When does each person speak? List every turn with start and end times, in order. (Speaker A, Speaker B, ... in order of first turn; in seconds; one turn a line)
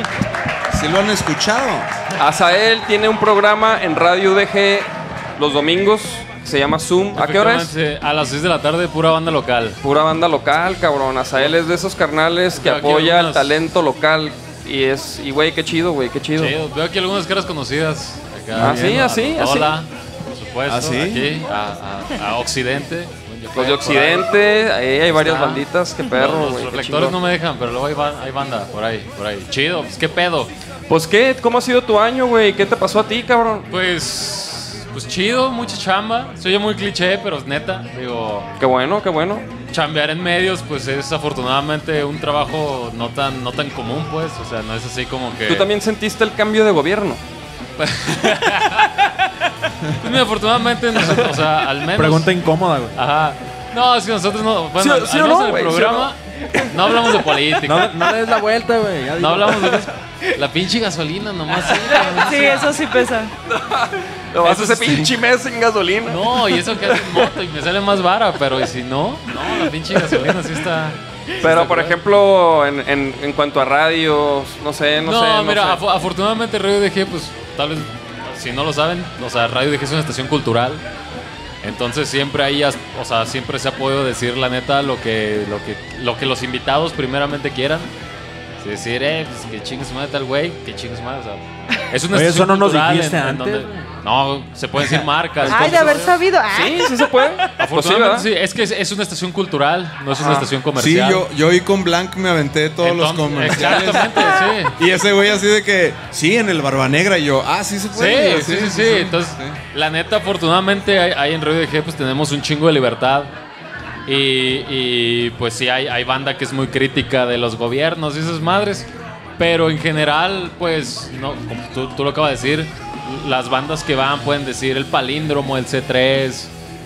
Speaker A: 0.7-1.9
Speaker B: 2.2-7.7
Speaker C: 7.2-9.8
Speaker B: 9.8-16.6
Speaker C: 12.5-13.6
Speaker C: 16.4-24.4
Speaker B: 18.6-19.7
Speaker A: 18.6-19.0
Speaker A: 20.7-21.4
Speaker B: 23.5-27.2
Speaker C: 25.1-30.5
Speaker B: 30.9-33.7
Speaker C: 33.7-38.5
Speaker B: 38.6-39.5
Speaker C: 39.6-45.7
Speaker B: 45.5-47.2
Speaker C: 47.8-49.1
Speaker C: 50.0-52.4
Speaker D: 51.9-52.9
Speaker C: 52.9-56.2
Speaker B: 54.8-56.1
Speaker C: 56.7-58.0
Speaker D: 57.6-59.9
Speaker C: 59.1-62.8
Speaker E: 62.1-63.3
Speaker B: 63.5-67.2
Speaker C: 64.4-65.1
Speaker C: 66.0-72.0
Speaker B: 71.4-75.8
Speaker C: 75.0-80.8
Speaker C: 81.6-87.9
Speaker C: 88.6-96.2
Speaker D: 92.1-94.0
Speaker E: 95.4-97.0
Speaker B: 96.5-98.3
Speaker C: 97.6-101.3
Speaker A: 100.7-109.6
Speaker C: 102.8-104.8
Speaker C: 107.9-113.3
Speaker C: 114.0-126.5